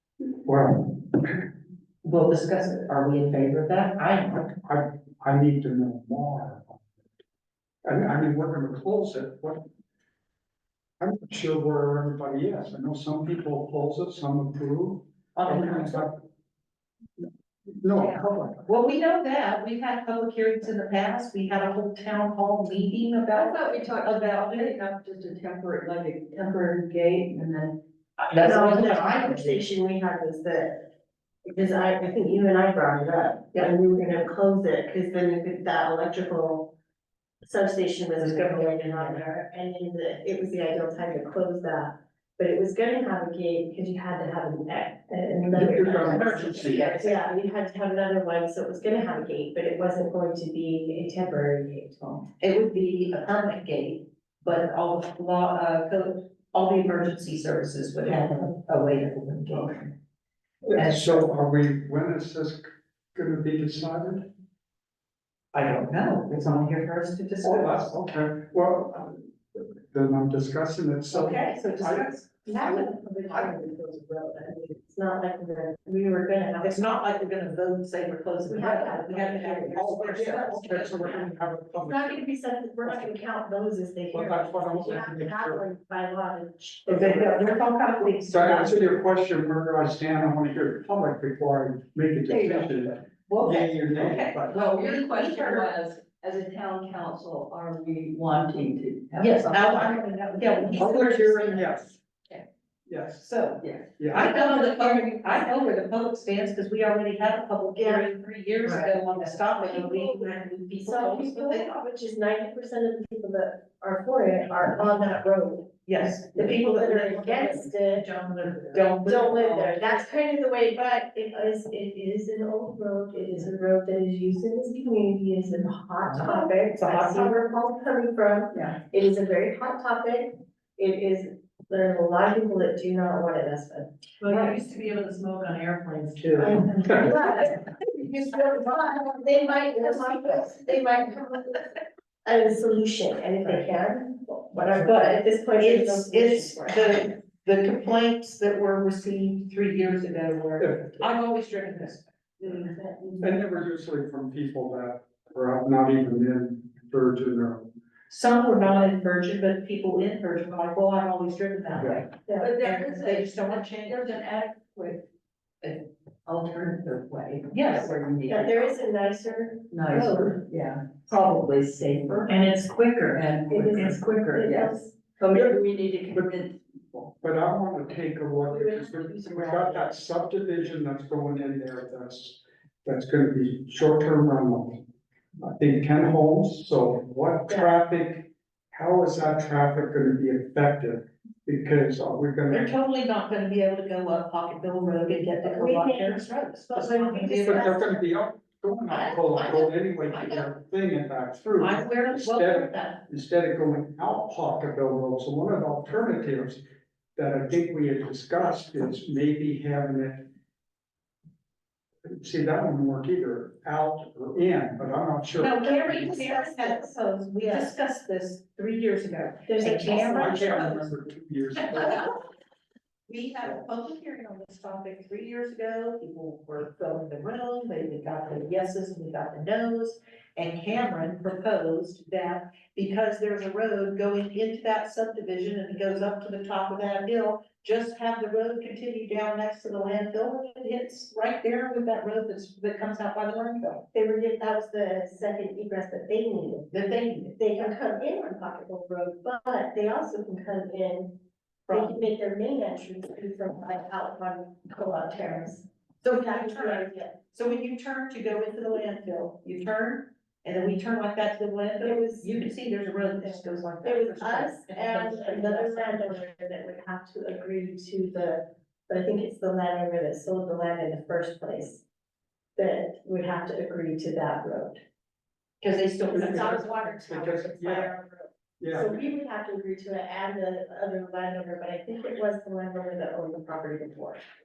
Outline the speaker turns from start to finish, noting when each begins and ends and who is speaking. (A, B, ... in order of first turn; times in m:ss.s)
0:00.4-0:01.4 A
0:02.0-0:04.5 B
0:04.5-0:06.8 A
0:07.8-0:09.6 A
0:11.0-0:16.1 A
0:15.4-0:16.1 B
0:17.8-0:18.7 A
0:18.0-0:24.7 B
0:23.3-0:27.8 C
0:28.2-0:29.6 B
0:28.4-0:30.8 D
0:31.5-0:36.7 D
0:37.4-0:52.2 D
0:38.2-0:39.2 B
0:45.5-0:46.9 A
0:46.1-0:47.2 C
0:46.2-0:47.2 B
0:52.4-0:59.9 B
1:00.6-1:04.2 A
1:00.8-1:01.3 B
1:05.5-1:08.0 B
1:07.4-1:12.1 A
1:11.1-1:13.5 B
1:12.5-1:17.1 D
1:16.6-1:21.3 B
1:18.5-1:19.8 D
1:19.7-1:22.2 A
1:21.8-1:27.7 D
1:24.1-1:25.6 A
1:26.9-1:28.9 B
1:28.3-1:34.6 A
1:32.3-1:32.7 C
1:33.3-1:41.1 C
1:33.8-1:35.7 B
1:39.2-1:41.7 B
1:40.8-1:41.6 D
1:41.5-1:41.9 A
1:42.9-1:43.2 A
1:43.2-1:51.7 B
1:43.6-1:44.6 C
1:44.0-1:44.4 A
1:44.3-1:44.8 D
1:47.8-1:48.1 D
1:48.7-1:50.3 D
1:50.8-1:58.0 D
1:55.9-2:00.0 B
1:59.0-2:13.9 D
2:06.1-2:07.5 B
2:14.2-2:20.5 B
2:14.3-2:14.5 C
2:16.4-2:17.6 D
2:17.0-2:17.5 C
2:18.5-2:21.6 D
2:22.2-2:26.8 D
2:24.8-2:32.7 B
2:30.6-2:31.1 A
2:32.4-2:33.4 D
2:33.2-2:37.7 A
2:38.1-2:44.2 B
2:41.8-2:42.0 A
2:42.2-2:42.5 D
2:42.4-2:45.0 C
2:46.2-2:48.1 C
2:47.4-2:48.7 B
2:48.3-2:50.3 D
2:49.7-2:52.3 C
2:49.8-2:50.4 B
2:52.3-2:54.6 B
2:53.2-2:53.5 C
2:53.5-2:55.0 D
2:54.2-2:57.1 C
2:57.2-3:04.8 A
2:58.5-2:59.9 D
3:05.4-3:12.8 A
3:07.5-3:07.8 D
3:12.5-3:17.8 B
3:15.4-3:18.0 D
3:17.3-3:26.6 A
3:18.9-3:20.4 B
3:21.6-3:23.0 B
3:27.2-3:30.2 A
3:32.1-3:36.2 A
3:35.4-3:40.9 B
3:35.6-3:37.7 D
3:39.5-3:40.7 D
3:40.2-3:42.1 A
3:41.6-3:42.2 B
3:43.1-4:03.8 B
4:03.9-4:06.7 D
4:06.7-4:07.4 B
4:07.4-4:11.1 D
4:11.7-4:12.0 B
4:11.7-4:17.1 D
4:16.0-4:26.2 B
4:21.8-4:22.3 D
4:23.0-4:31.8 D
4:32.6-4:34.8 D
4:35.6-4:37.8 B
4:36.1-4:44.2 D
4:36.1-4:37.9 A
4:38.6-4:38.9 A